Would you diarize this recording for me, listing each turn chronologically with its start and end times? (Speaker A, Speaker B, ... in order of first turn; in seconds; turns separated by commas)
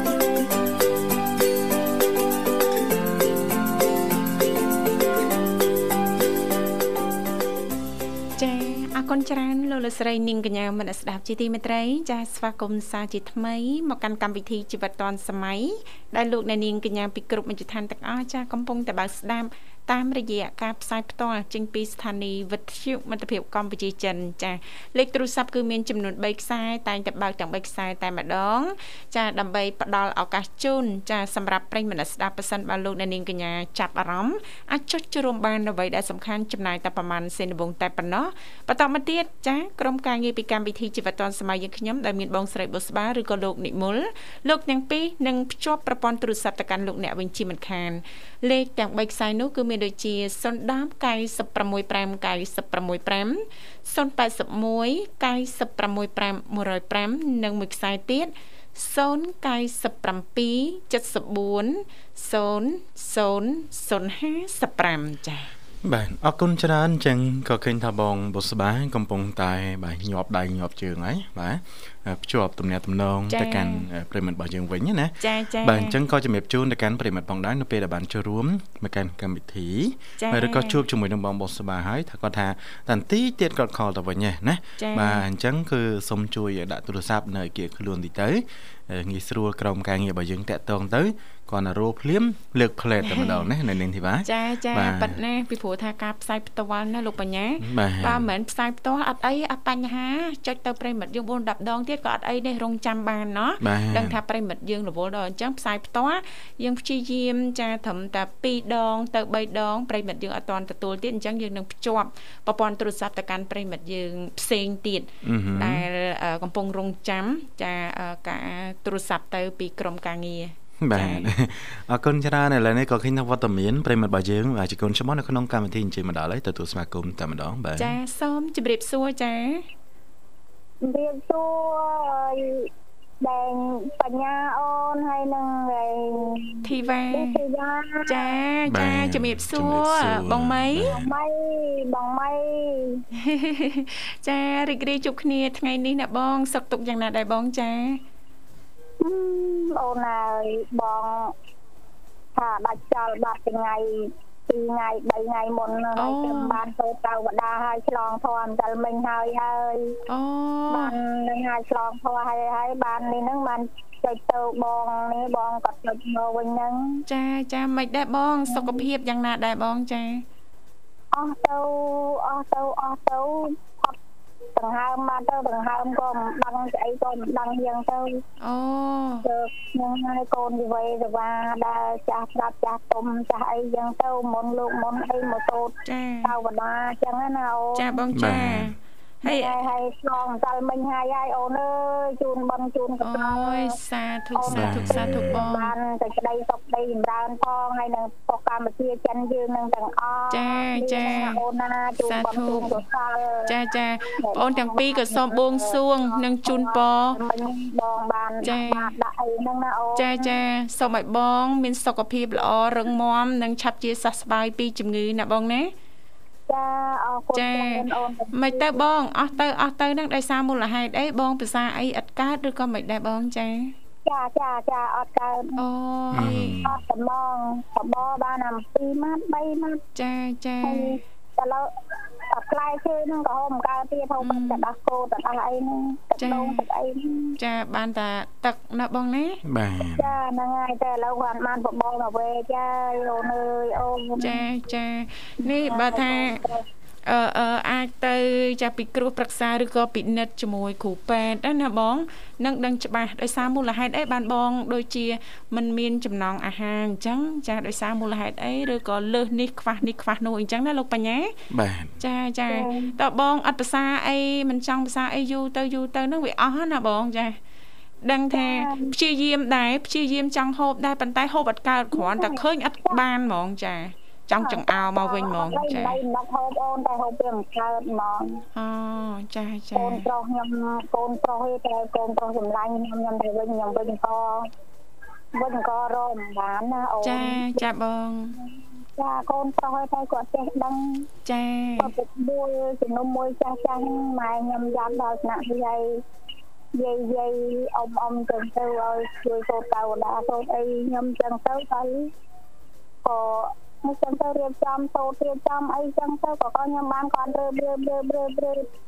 Speaker A: 8.4-65.5, Speaker B: 65.8-95.2, Speaker A: 73.3-73.9, Speaker A: 75.2-75.9, Speaker A: 80.2-80.8, Speaker A: 84.8-85.2, Speaker A: 93.0-93.5, Speaker A: 94.2-121.3, Speaker B: 97.6-98.2, Speaker B: 103.6-104.2, Speaker B: 115.2-115.8, Speaker B: 120.8-128.0, Speaker A: 127.8-129.6, Speaker C: 130.8-132.7, Speaker C: 133.2-138.3, Speaker A: 136.6-137.4, Speaker A: 138.1-140.9, Speaker B: 138.7-141.1, Speaker C: 140.8-143.0, Speaker A: 143.1-148.0, Speaker C: 149.0-151.3, Speaker C: 152.3-160.0, Speaker A: 155.9-156.6, Speaker A: 160.1-161.0, Speaker C: 160.7-167.0, Speaker A: 167.1-170.2, Speaker C: 168.5-168.8, Speaker C: 171.1-173.9, Speaker C: 174.6-178.2, Speaker A: 178.4-179.2, Speaker C: 179.2-187.9, Speaker A: 185.8-186.3, Speaker A: 187.7-189.6, Speaker B: 188.1-188.7, Speaker C: 189.2-193.7, Speaker A: 193.0-195.7, Speaker C: 194.3-203.5, Speaker B: 194.5-195.4, Speaker A: 200.3-201.4, Speaker A: 202.0-202.8, Speaker A: 203.5-207.2, Speaker C: 204.2-210.3, Speaker A: 208.4-208.9, Speaker A: 209.9-215.7, Speaker C: 216.5-218.8, Speaker A: 217.3-223.7, Speaker C: 224.0-225.6, Speaker A: 225.6-226.6, Speaker B: 226.1-226.8, Speaker C: 226.6-229.8, Speaker A: 229.9-231.0, Speaker C: 230.6-231.7, Speaker C: 232.3-237.4, Speaker A: 234.2-234.6, Speaker A: 236.2-236.6, Speaker A: 237.4-239.4, Speaker B: 239.4-240.2, Speaker C: 239.9-244.4, Speaker A: 244.2-246.4, Speaker C: 245.4-246.6, Speaker A: 247.1-261.3, Speaker B: 261.5-261.9, Speaker A: 262.0-267.4, Speaker C: 262.5-262.9, Speaker A: 268.0-276.0, Speaker C: 268.3-268.9, Speaker C: 271.9-273.0, Speaker C: 274.4-278.4, Speaker A: 278.6-280.1, Speaker C: 279.7-284.5, Speaker C: 285.3-287.6, Speaker A: 287.0-288.4, Speaker C: 288.4-291.1, Speaker A: 291.2-291.9, Speaker C: 291.8-296.0, Speaker C: 296.7-302.1, Speaker C: 303.0-308.7